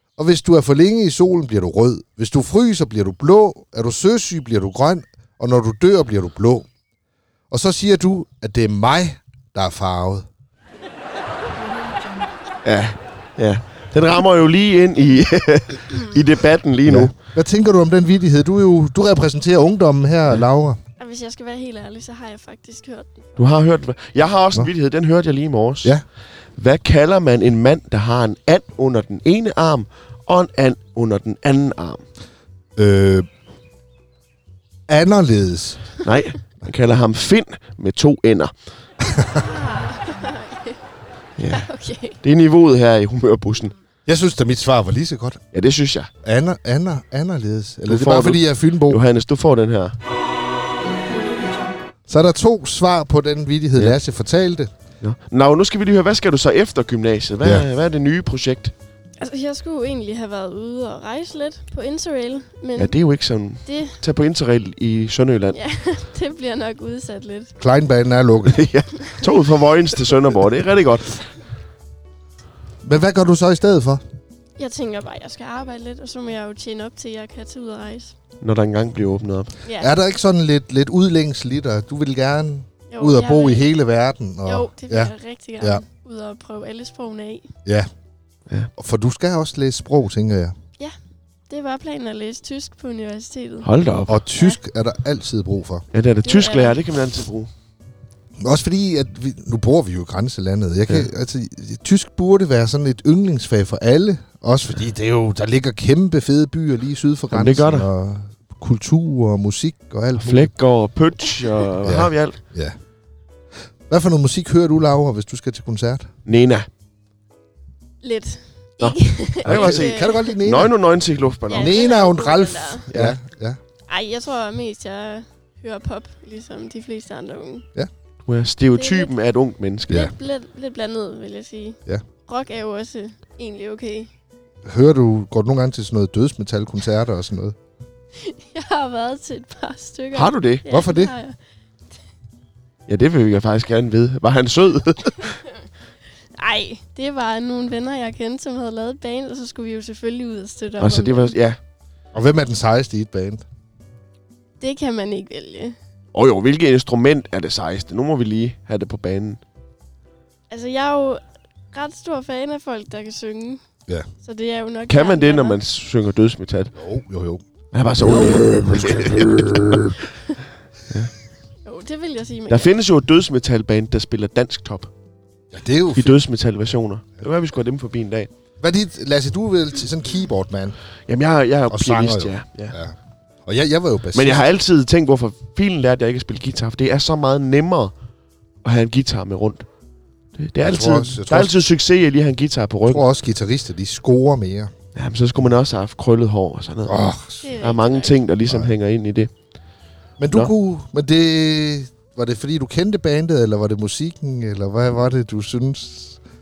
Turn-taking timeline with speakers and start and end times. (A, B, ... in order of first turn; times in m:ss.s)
0:00.2-0:06.7 A
0:07.5-0:10.3 A
0:12.6-0:17.1 B
0:16.8-0:20.8 A
0:21.0-0:23.4 C
0:23.4-0:26.0 B
0:26.6-0:32.0 B
0:32.8-0:33.2 A
0:34.9-0:35.9 A
0:36.0-0:38.5 B
0:39.0-0:39.4 A
0:39.3-0:40.8 C
0:41.4-0:41.7 B
0:41.5-0:42.2 C
0:42.2-0:43.7 B
0:44.0-0:45.4 A
0:45.5-0:46.1 B
0:46.2-0:49.0 A
0:47.9-0:50.0 B
0:52.1-0:54.7 A
0:55.0-0:58.7 B
0:59.2-1:02.9 C
1:02.8-1:05.6 B
1:03.6-1:04.0 C
1:05.5-1:07.5 C
1:07.6-1:08.6 A
1:08.4-1:11.2 B
1:12.8-1:14.0 A
1:14.6-1:18.1 C
1:18.4-1:19.5 B
1:19.6-1:19.9 C
1:19.8-1:25.8 A
1:22.9-1:23.7 C
1:24.4-1:27.5 C
1:28.8-1:30.5 A
1:31.5-1:33.7 C
1:33.6-1:34.2 B
1:34.1-1:35.8 A
1:35.9-1:37.5 B
1:36.2-1:36.8 C
1:38.4-1:50.5 A
1:47.3-1:47.9 B
1:50.2-1:52.4 B
1:51.8-1:52.8 A
1:53.9-1:56.1 A
1:56.2-1:56.7 B
1:58.0-2:00.3 C
1:58.8-2:01.8 B
1:59.4-2:00.7 A
2:01.5-2:02.9 C
2:01.5-2:03.6 A
2:02.9-2:03.2 B
2:03.9-2:07.7 C
2:08.2-2:10.1 B
2:08.7-2:09.1 C
2:09.9-2:14.1 C
2:14.6-2:17.6 A
2:18.2-2:21.4 C
2:20.1-2:20.6 B
2:20.7-2:21.1 A
2:22.9-2:25.4 B
2:26.3-2:31.4 C
2:30.8-2:31.6 B
2:32.1-2:33.4 A
2:34.6-2:35.8 C
2:36.1-2:39.4 B
2:40.5-2:43.6 C
2:44.2-2:45.6 C
2:44.9-2:46.7 B
2:46.7-2:47.4 A
2:47.7-2:50.0 B
2:48.0-2:49.8 A
2:51.6-2:52.8 C
2:52.5-2:54.9 B
2:55.5-2:56.2 A
2:55.9-2:58.3 B
2:58.6-3:00.8 A
3:01.1-3:02.8 B
3:01.7-3:04.4 A
3:04.1-3:07.9 B
3:08.6-3:09.6 B
3:10.4-3:13.0 B
3:10.6-3:11.5 A
3:12.9-3:14.7 A
3:14.9-3:17.0 B
3:16.8-3:17.6 A
3:17.4-3:18.2 C
3:17.6-3:19.3 B
3:18.4-3:18.7 A
3:20.2-3:26.2 A